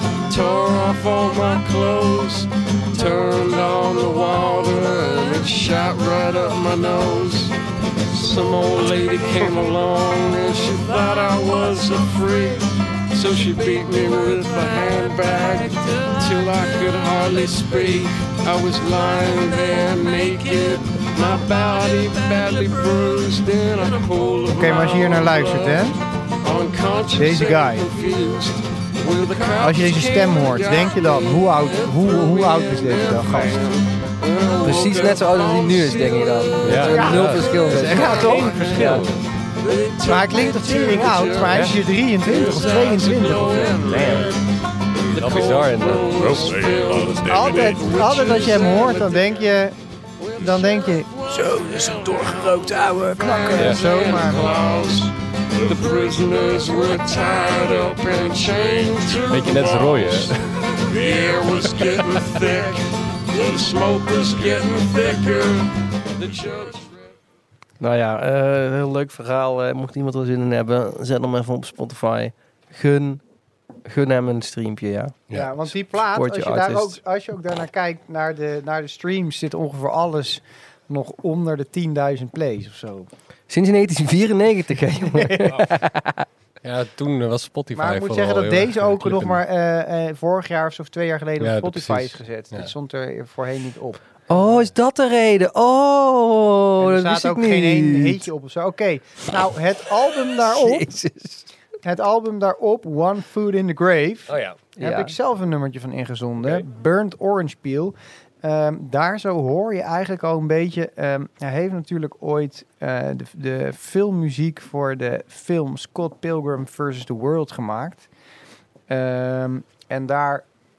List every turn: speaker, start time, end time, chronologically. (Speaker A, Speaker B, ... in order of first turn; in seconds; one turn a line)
Speaker A: 0.3-7.5
Speaker A: 8.1-25.9
Speaker B: 24.5-26.0
Speaker A: 26.4-44.4
Speaker B: 27.1-27.9
Speaker B: 29.6-33.6
Speaker C: 34.6-38.5
Speaker D: 36.6-39.2
Speaker B: 36.9-38.5
Speaker B: 40.1-44.0
Speaker D: 41.5-41.8
Speaker D: 43.8-44.4
Speaker A: 45.1-49.5
Speaker D: 45.1-46.9
Speaker B: 47.3-49.8
Speaker A: 50.2-67.1
Speaker B: 50.4-51.3
Speaker B: 53.3-54.5
Speaker D: 53.5-54.0
Speaker D: 59.3-60.8
Speaker C: 67.8-73.2
Speaker C: 73.9-75.2
Speaker D: 75.3-75.5
Speaker B: 75.3-83.1
Speaker C: 76.1-77.0
Speaker C: 83.5-86.2
Speaker B: 85.0-85.5
Speaker D: 86.6-89.4
Speaker B: 87.7-94.0
Speaker D: 91.4-92.7
Speaker C: 94.3-98.2
Speaker D: 94.3-94.7
Speaker B: 96.8-100.9
Speaker C: 100.5-101.5
Speaker B: 101.8-118.1
Speaker D: 104.3-104.6
Speaker C: 104.8-105.1
Speaker D: 106.4-106.7
Speaker B: 118.9-120.5